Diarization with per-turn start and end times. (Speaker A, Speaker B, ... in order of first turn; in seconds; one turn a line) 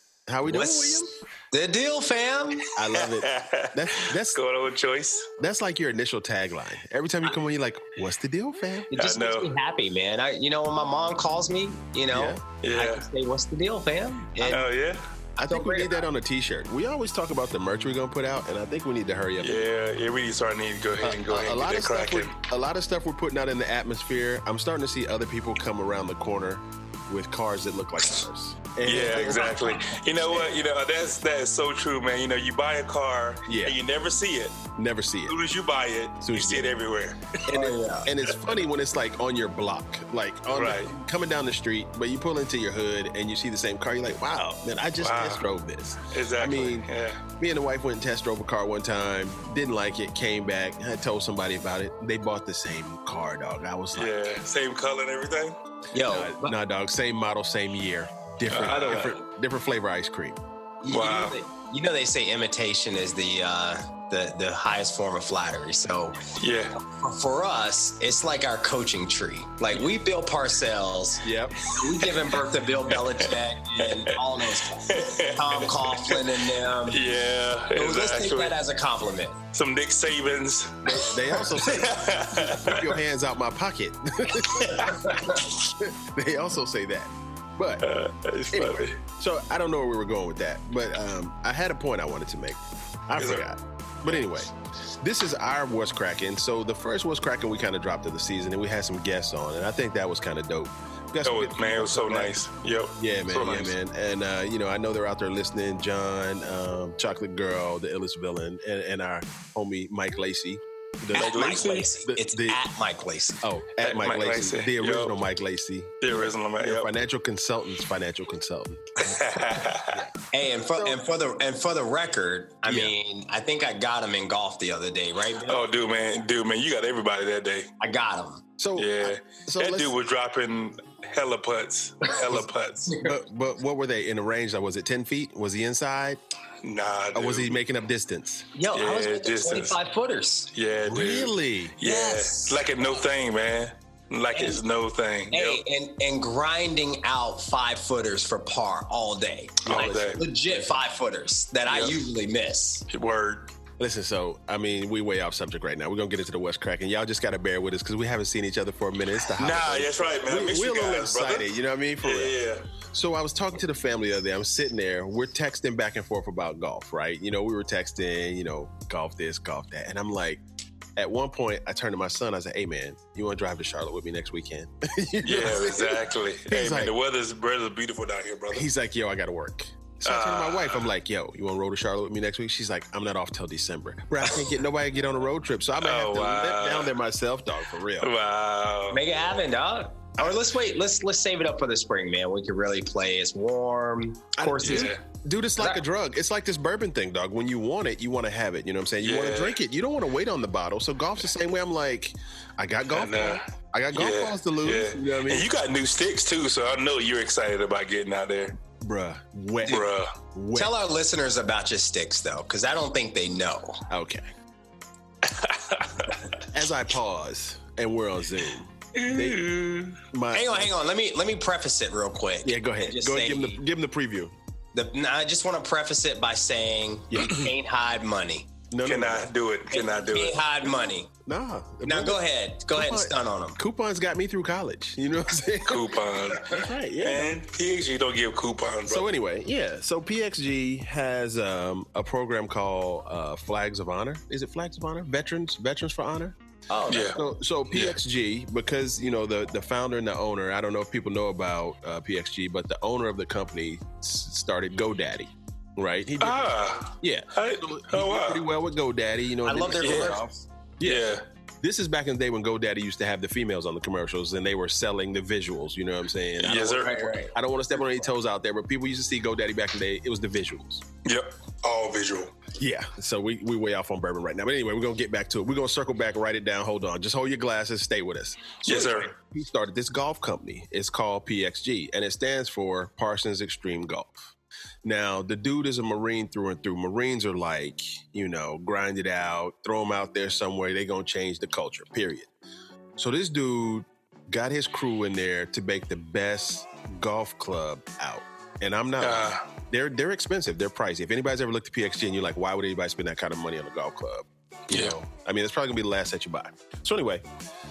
Speaker A: 0.3-1.1
Speaker B: 0.5-2.7
Speaker A: 2.8-4.4
Speaker C: 2.9-5.3
Speaker A: 5.4-8.9
Speaker B: 8.9-14.6
Speaker C: 8.9-9.5
Speaker A: 12.1-12.4
Speaker C: 12.6-13.1
Speaker A: 14.4-14.6
Speaker C: 14.5-15.0
Speaker A: 15.4-19.6
Speaker B: 15.5-16.0
Speaker C: 19.4-22.4
Speaker A: 21.0-30.5
Speaker C: 28.9-34.6
Speaker A: 33.5-33.8
Speaker A: 34.8-35.4
Speaker C: 35.3-37.4
Speaker A: 36.2-36.7
Speaker A: 37.5-54.1
Speaker B: 37.5-38.1
Speaker C: 38.3-38.6
Speaker C: 40.5-40.9
Speaker C: 45.0-45.5
Speaker C: 46.1-47.2
Speaker C: 54.0-55.6
Speaker B: 55.9-56.6
Speaker A: 56.0-60.4
Speaker C: 58.5-59.2
Speaker B: 60.8-66.2
Speaker C: 60.9-61.4
Speaker C: 66.4-66.8
Speaker B: 66.8-77.0
Speaker A: 71.2-71.7
Speaker C: 71.8-72.4
Speaker C: 72.9-78.6
Speaker B: 77.8-79.4
Speaker C: 79.5-83.0
Speaker A: 80.8-87.9
Speaker C: 84.6-84.9
Speaker B: 84.7-85.5
Speaker C: 87.8-89.0
Speaker A: 88.5-102.4
Speaker C: 93.2-93.5
Speaker C: 101.2-103.7
Speaker A: 103.0-112.6
Speaker C: 111.1-111.9
Speaker B: 111.1-113.4
Speaker A: 113.4-118.9
Speaker C: 113.8-115.2
Speaker C: 116.0-116.9
Speaker C: 119.0-120.0
Speaker A: 119.9-120.1
Speaker B: 120.3-125.7
Speaker A: 120.7-121.0
Speaker A: 122.7-122.9
Speaker C: 125.5-127.7
Speaker B: 127.8-128.4
Speaker A: 128.6-129.9
Speaker C: 128.8-132.9
Speaker B: 132.9-133.2
Speaker A: 133.0-136.2
Speaker C: 136.6-137.6
Speaker A: 137.1-138.5
Speaker B: 138.6-140.5
Speaker C: 138.7-139.8
Speaker C: 140.6-145.6
Speaker A: 140.8-141.8
Speaker B: 141.8-142.7
Speaker B: 144.3-144.6
Speaker B: 145.3-152.9
Speaker A: 149.6-150.7
Speaker C: 149.7-150.2
Speaker C: 151.7-152.0
Speaker C: 152.9-153.5
Speaker A: 153.8-162.4
Speaker C: 159.4-161.5
Speaker C: 162.0-162.7
Speaker A: 162.9-170.4
Speaker A: 171.0-176.9
Speaker C: 175.2-178.7
Speaker A: 178.5-188.1
Speaker C: 180.1-180.9
Speaker C: 185.8-186.9
Speaker C: 188.0-189.0
Speaker B: 188.9-194.9
Speaker A: 194.4-205.5
Speaker C: 194.6-195.0
Speaker C: 199.0-199.6
Speaker C: 202.9-208.6
Speaker A: 208.8-210.8
Speaker C: 209.7-210.2
Speaker B: 210.5-213.8
Speaker A: 213.9-214.3
Speaker C: 215.2-216.3
Speaker A: 216.4-219.5
Speaker C: 218.9-220.0
Speaker A: 220.1-220.7
Speaker B: 220.3-223.6
Speaker A: 222.4-224.3
Speaker B: 224.7-228.5
Speaker A: 227.1-227.4
Speaker A: 228.7-229.3
Speaker C: 228.8-230.4
Speaker B: 229.7-231.1
Speaker A: 231.3-237.4
Speaker B: 231.8-233.6
Speaker C: 235.7-239.1
Speaker A: 238.9-246.4
Speaker B: 246.7-247.2
Speaker C: 246.9-247.2
Speaker A: 247.1-270.9
Speaker C: 256.2-258.4
Speaker B: 259.4-260.2
Speaker C: 259.8-260.2
Speaker C: 260.8-261.2
Speaker C: 266.4-267.1
Speaker B: 266.6-267.4
Speaker C: 271.1-272.4
Speaker A: 272.6-284.2
Speaker C: 278.6-279.1
Speaker A: 284.8-292.3
Speaker A: 293.0-307.2
Speaker C: 299.0-299.4
Speaker C: 304.7-304.9